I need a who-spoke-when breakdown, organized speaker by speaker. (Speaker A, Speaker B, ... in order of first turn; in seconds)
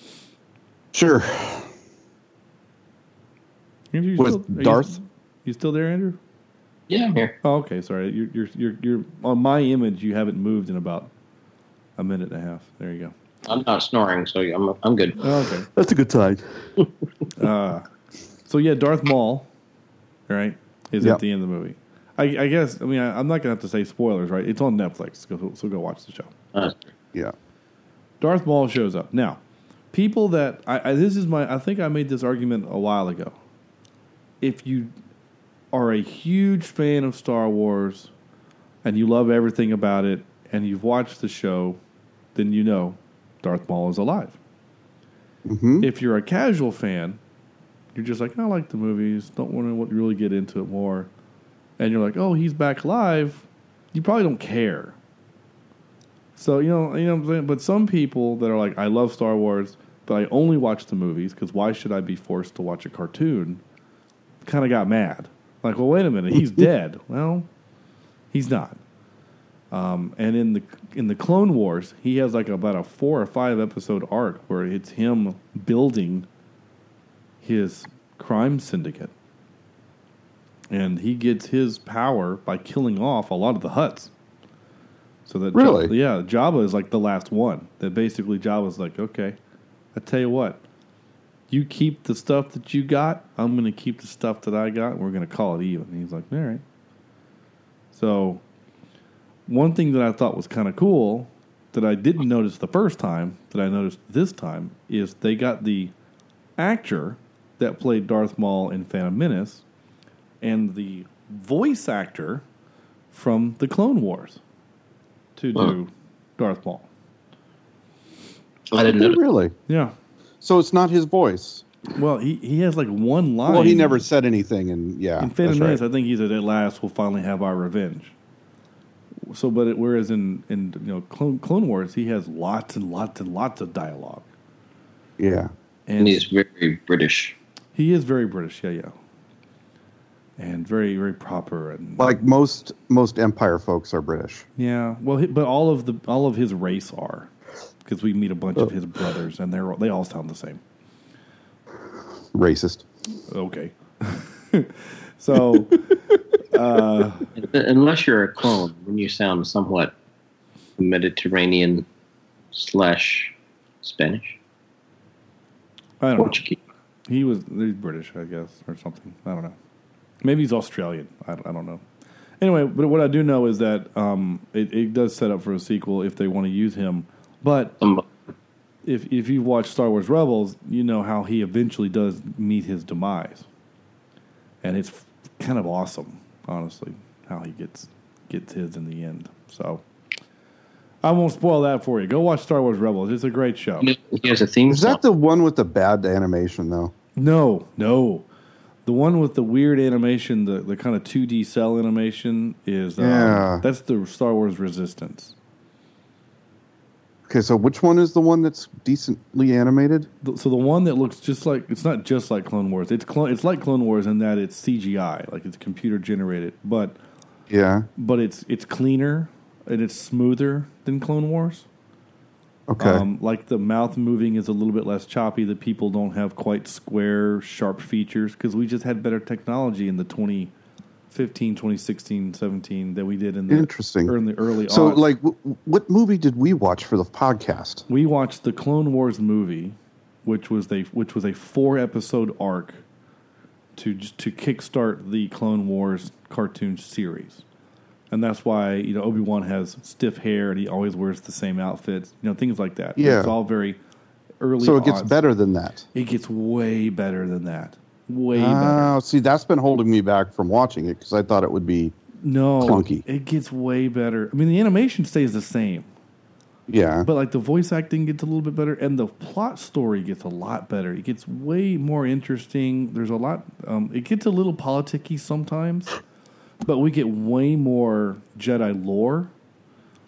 Speaker A: 0.9-1.7, 4.2-5.0, 15.7-16.7, 45.5-45.9, 85.5-85.9, 118.9-119.5, 120.4-121.7, 123.5-125.8, 135.2-135.5, 142.0-144.4, 152.3-152.9, 194.7-196.9, 203.0-203.6, 207.3-210.1, 217.5-217.9, 222.7-223.0, 233.5-234.2, 234.7-237.8, 253.0-253.3, 254.6-255.8, 258.3-261.9, 262.6-263.0, 266.7-267.1
Speaker B: 3.9-6.2, 7.4-11.1, 12.0-13.1, 15.2-15.7, 17.3-17.9, 18.4-19.5, 20.3-26.3, 28.2-29.4, 29.9-33.4, 34.4-34.9, 35.7-38.1, 38.8-41.8, 42.3-44.4, 45.8-47.2, 47.9-51.1, 51.8-55.0, 56.4-63.6, 64.4-67.5, 68.3-68.8, 69.7-76.2, 77.4-79.1, 80.7-84.1, 85.3-89.4, 89.9-90.6, 91.5-96.6, 97.9-98.4, 99.5-105.9, 106.6-109.6, 110.4-112.4, 113.1-114.4, 115.3-116.9, 119.7-119.9, 121.9-124.0, 125.2-128.1, 129.3-134.2, 135.9-136.2, 137.7-138.9, 140.4-142.2, 144.6-147.3, 147.8-150.6, 153.3-155.8, 156.5-157.3, 166.0-166.4, 167.1-169.6, 170.2-171.8, 172.4-177.7, 178.8-183.4, 184.6-189.8, 191.0-193.9, 197.2-198.2, 198.8-205.3, 210.2-217.0, 218.0-221.7, 222.8-230.5, 231.1-235.1, 237.9-242.8, 243.8-247.4, 248.1-253.8, 254.4-255.2, 255.9-258.9, 262.2-265.9, 267.0-275.9, 276.6-279.3
Speaker C: 6.9-7.3, 13.4-15.2, 26.5-26.9, 118.7-119.2, 136.0-137.4, 157.3-159.9, 160.8-161.8, 162.5-164.4, 166.2-166.6, 193.8-195.0